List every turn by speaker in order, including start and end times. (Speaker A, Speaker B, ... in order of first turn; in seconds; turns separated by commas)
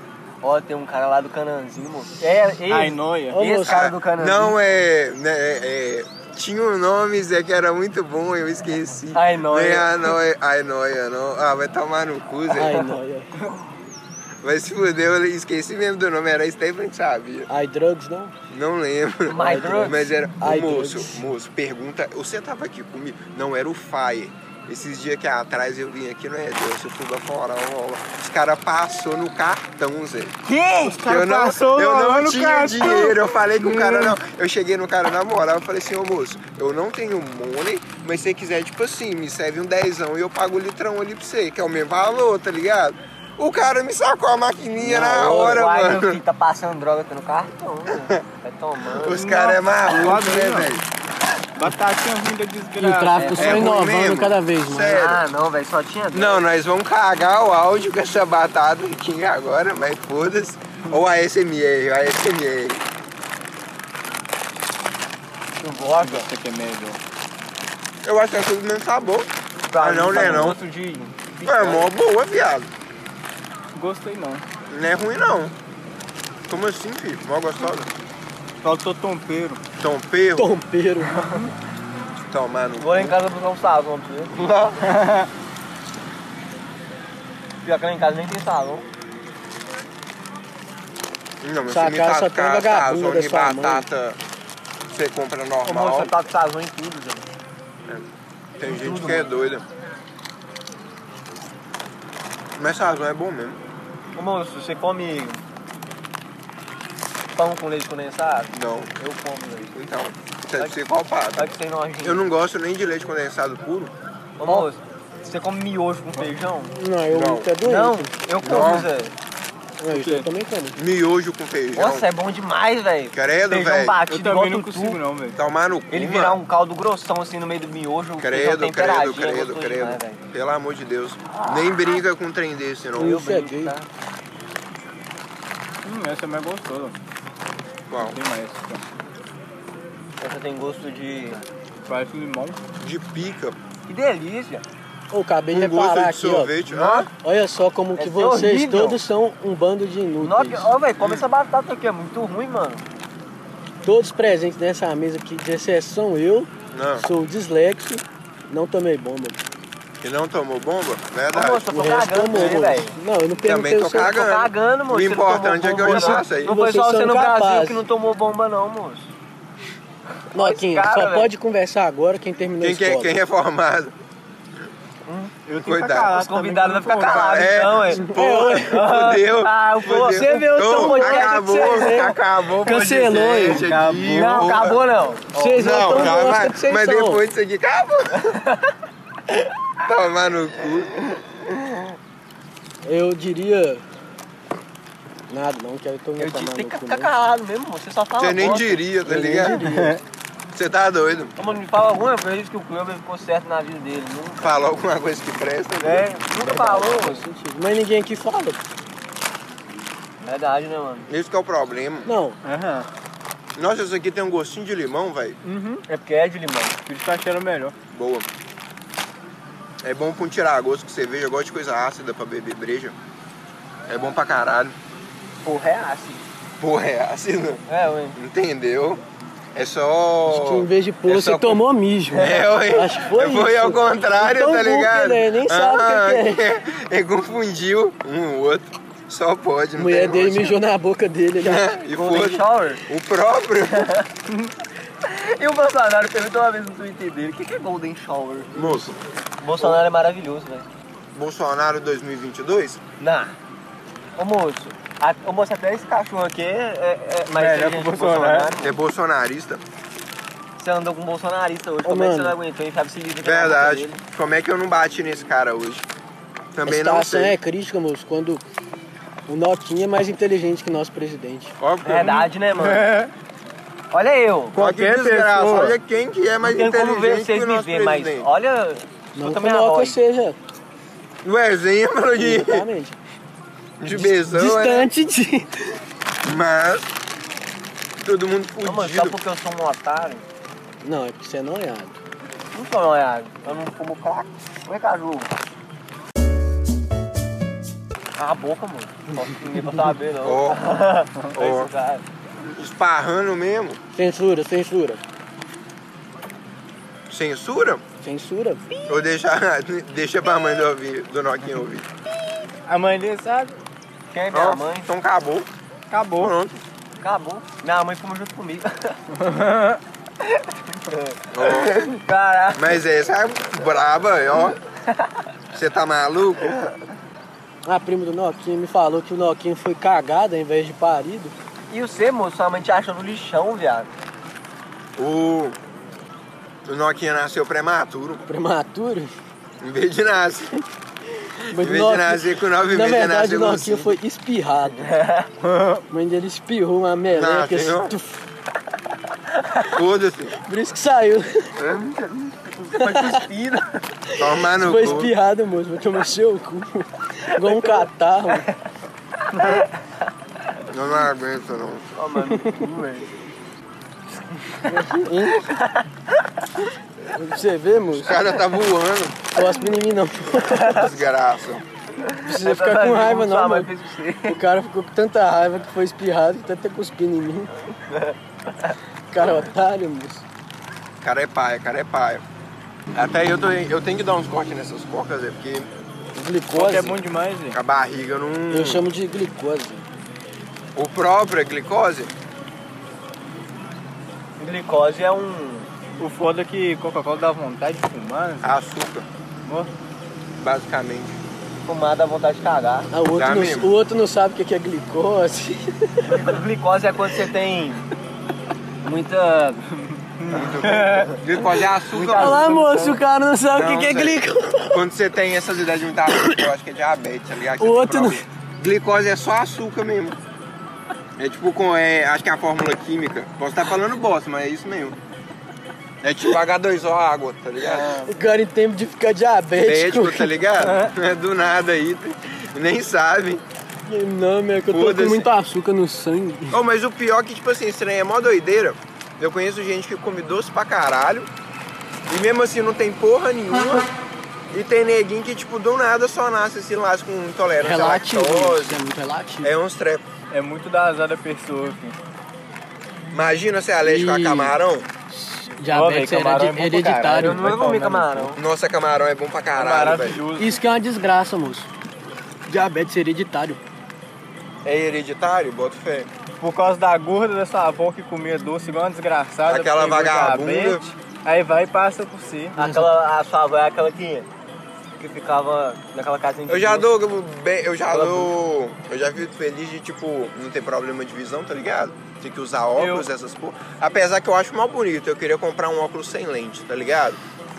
Speaker A: 0.4-4.6, Speaker B: 2.7-3.4, Speaker C: 3.3-3.9, Speaker D: 3.7-12.8, Speaker A: 9.1-10.2, Speaker C: 12.5-13.3, Speaker A: 12.7-12.9, Speaker D: 14.4-17.5, Speaker C: 17.5-18.3, Speaker D: 18.5-30.3, Speaker A: 19.3-20.0, Speaker C: 19.4-21.2, Speaker A: 30.4-31.0, Speaker B: 30.8-34.1, Speaker D: 31.0-46.2, Speaker A: 44.8-49.2, Speaker D: 47.9-48.2, Speaker D: 48.9-50.8, Speaker B: 49.0-50.7, Speaker B: 51.5-53.6, Speaker C: 52.8-55.0, Speaker A: 53.2-53.7, Speaker D: 53.4-55.2, Speaker A: 54.9-56.4, Speaker D: 56.1-62.8, Speaker A: 65.6-66.3, Speaker B: 66.0-67.0, Speaker D: 68.0-70.6, Speaker A: 69.7-71.9, Speaker B: 70.1-70.6, Speaker D: 71.4-72.7, Speaker B: 73.7-74.4, Speaker D: 74.7-75.5, Speaker D: 76.5-77.9, Speaker B: 78.6-79.6, Speaker D: 79.8-80.5, Speaker C: 80.4-81.2, Speaker A: 81.2-81.5, Speaker D: 82.3-83.1, Speaker A: 82.8-84.3, Speaker D: 84.3-84.8, Speaker B: 84.8-85.3, Speaker A: 87.6-88.8, Speaker D: 91.4-94.2, Speaker C: 91.7-93.8, Speaker D: 94.9-96.1, Speaker A: 95.6-97.3, Speaker D: 98.6-99.6, Speaker A: 98.6-99.3, Speaker D: 102.6-103.6, Speaker A: 104.2-105.4, Speaker A: 107.3-109.7, Speaker D: 108.5-108.9, Speaker D: 109.7-113.9, Speaker A: 111.3-112.2, Speaker A: 114.4-116.7, Speaker C: 116.7-118.1, Speaker D: 117.1-117.5, Speaker A: 117.6-119.1, Speaker D: 118.4-118.9, Speaker C: 119.8-120.8, Speaker B: 119.9-120.2, Speaker D: 120.8-122.1, Speaker A: 121.7-125.0, Speaker D: 123.1-124.0, Speaker B: 124.1-125.4, Speaker D: 125.3-126.4, Speaker A: 125.9-130.2, Speaker D: 128.2-133.2, Speaker A: 131.3-131.8, Speaker C: 133.0-133.7, Speaker A: 133.0-133.9, Speaker B: 135.8-136.9, Speaker D: 137.9-138.2, Speaker B: 137.9-138.8, Speaker A: 140.2-141.4, Speaker B: 141.9-142.6, Speaker D: 142.8-143.6, Speaker A: 143.9-144.6, Speaker C: 145.1-150.7, Speaker D: 145.5-147.1, Speaker A: 146.8-147.0, Speaker A: 148.0-149.0, Speaker A: 150.2-152.8, Speaker C: 153.8-159.4, Speaker D: 156.7-157.1, Speaker D: 160.0-161.7, Speaker A: 161.3-162.9, Speaker C: 161.7-164.2, Speaker D: 162.3-162.7, Speaker D: 163.4-166.5, Speaker A: 164.1-169.1, Speaker C: 165.8-167.8, Speaker A: 170.3-171.3, Speaker C: 170.3-173.2, Speaker D: 172.6-173.9, Speaker A: 175.1-175.3, Speaker B: 175.4-177.5, Speaker D: 175.6-176.1, Speaker A: 176.1-182.2, Speaker D: 176.9-184.8, Speaker C: 177.9-178.8, Speaker C: 180.0-183.7, Speaker B: 183.5-184.5, Speaker A: 184.0-186.3, Speaker C: 185.3-187.2, Speaker D: 185.6-188.3, Speaker A: 188.2-188.7, Speaker D: 189.8-190.9, Speaker A: 191.1-191.8, Speaker C: 192.8-193.8, Speaker C: 195.3-197.1, Speaker A: 196.2-198.8, Speaker D: 198.2-199.6, Speaker C: 199.0-200.0, Speaker B: 199.5-200.0, Speaker D: 200.5-201.3, Speaker A: 201.4-204.5, Speaker D: 204.4-206.9, Speaker A: 205.8-207.2, Speaker C: 206.6-208.6, Speaker A: 210.2-211.1, Speaker D: 211.1-212.1, Speaker C: 212.1-212.4, Speaker B: 212.4-212.9, Speaker D: 213.5-215.4, Speaker B: 215.4-215.8, Speaker A: 215.8-216.8, Speaker B: 216.8-217.7, Speaker D: 217.9-218.3, Speaker D: 219.8-222.9, Speaker D: 223.9-224.8, Speaker A: 225.4-226.2, Speaker D: 226.6-227.6, Speaker A: 227.7-228.2, Speaker D: 228.1-229.0, Speaker D: 229.5-231.6, Speaker C: 230.3-236.4, Speaker A: 232.1-232.4, Speaker D: 232.1-240.6, Speaker C: 239.8-241.7, Speaker D: 241.4-243.9, Speaker A: 241.9-242.8, Speaker A: 243.7-244.1, Speaker A: 245.0-248.8, Speaker D: 248.5-249.0, Speaker A: 249.4-250.7, Speaker D: 251.1-252.8, Speaker A: 253.0-253.3, Speaker A: 254.2-258.7, Speaker B: 257.3-258.5, Speaker D: 258.6-259.6, Speaker A: 260.6-264.0, Speaker C: 261.8-262.3, Speaker D: 263.2-265.9, Speaker D: 266.5-267.4, Speaker C: 266.6-268.4, Speaker C: 269.3-271.5, Speaker D: 271.6-272.3, Speaker A: 271.8-272.9, Speaker B: 272.5-273.1, Speaker A: 273.9-274.6, Speaker D: 274.5-278.3, Speaker B: 274.5-275.8, Speaker A: 276.4-279.9, Speaker C: 279.1-280.4, Speaker D: 281.2-282.6, Speaker C: 282.2-283.0, Speaker D: 283.8-284.9, Speaker C: 283.9-285.7, Speaker D: 286.2-286.9, Speaker D: 288.0-289.2, Speaker A: 288.6-290.2, Speaker C: 290.8-292.0, Speaker A: 292.5-295.3, Speaker A: 298.1-302.0, Speaker D: 300.2-300.6, Speaker D: 301.3-301.7, Speaker D: 302.4-303.8, Speaker C: 303.9-305.0, Speaker D: 307.1-307.8, Speaker C: 308.0-308.6, Speaker D: 308.9-311.9, Speaker B: 312.6-313.5, Speaker A: 314.1-314.9, Speaker D: 314.3-315.5, Speaker B: 315.9-316.3, Speaker D: 316.2-316.6, Speaker A: 317.0-319.0, Speaker B: 319.1-319.8, Speaker A: 320.2-322.8, Speaker D: 321.3-321.7, Speaker D: 322.5-324.6, Speaker D: 325.5-326.5, Speaker C: 327.6-331.3, Speaker A: 331.7-333.9, Speaker D: 335.0-335.6, Speaker D: 336.6-338.2, Speaker C: 338.3-339.1, Speaker D: 339.6-340.6, Speaker C: 341.5-344.9, Speaker D: 341.5-343.9, Speaker A: 344.8-345.3, Speaker B: 345.4-345.8, Speaker C: 345.9-348.2, Speaker D: 347.1-347.9, Speaker D: 349.7-350.3, Speaker C: 350.4-351.5, Speaker A: 351.6-353.8, Speaker C: 352.8-353.2, Speaker C: 354.1-358.5, Speaker D: 354.2-355.1, Speaker A: 357.4-357.8, Speaker A: 359.3-359.7, Speaker D: 360.7-361.9, Speaker A: 361.9-363.1, Speaker C: 362.2-362.6, Speaker A: 364.4-366.2, Speaker C: 364.7-365.4, Speaker C: 367.1-368.2, Speaker D: 368.0-369.3, Speaker C: 369.3-370.9, Speaker A: 370.4-370.8, Speaker D: 370.7-371.6, Speaker A: 372.0-374.4, Speaker C: 372.2-373.7, Speaker C: 374.3-377.5, Speaker A: 377.9-378.7, Speaker C: 379.1-380.2, Speaker D: 381.0-382.2, Speaker D: 382.9-385.7, Speaker C: 386.1-387.0, Speaker B: 386.5-387.6, Speaker D: 387.5-388.8, Speaker C: 388.5-389.9, Speaker D: 390.8-392.1, Speaker A: 394.4-395.7, Speaker B: 396.0-398.6, Speaker D: 398.4-399.1, Speaker B: 399.4-399.7, Speaker D: 400.4-401.2, Speaker A: 401.6-402.9, Speaker C: 402.9-406.3, Speaker D: 403.1-403.7, Speaker A: 406.1-407.8, Speaker A: 408.8-409.6, Speaker B: 409.9-411.1, Speaker D: 410.3-412.5, Speaker A: 410.6-411.2, Speaker A: 411.9-413.0, Speaker C: 412.0-414.8, Speaker D: 413.5-420.2, Speaker C: 416.1-416.4, Speaker C: 417.6-418.2, Speaker D: 421.2-424.9, Speaker D: 426.0-428.0, Speaker A: 427.6-428.1, Speaker C: 428.0-430.4, Speaker D: 429.6-433.4, Speaker A: 430.6-430.9, Speaker C: 433.9-436.6, Speaker D: 434.7-435.3, Speaker D: 436.5-441.3, Speaker D: 442.1-443.9, Speaker D: 444.5-448.8, Speaker C: 447.6-449.5, Speaker D: 449.4-450.0, Speaker B: 450.3-451.9, Speaker D: 453.1-454.9, Speaker C: 453.8-454.6, Speaker C: 455.1-457.4, Speaker B: 455.7-458.3, Speaker A: 457.1-458.4, Speaker D: 458.3-460.2, Speaker B: 459.5-460.6, Speaker C: 460.4-461.7, Speaker C: 462.5-463.6, Speaker D: 464.6-466.1, Speaker B: 466.4-472.6, Speaker D: 469.4-470.8, Speaker A: 472.6-474.3, Speaker C: 472.6-472.9, Speaker A: 475.0-476.9, Speaker D: 476.5-487.2, Speaker A: 477.9-478.3, Speaker B: 482.8-483.1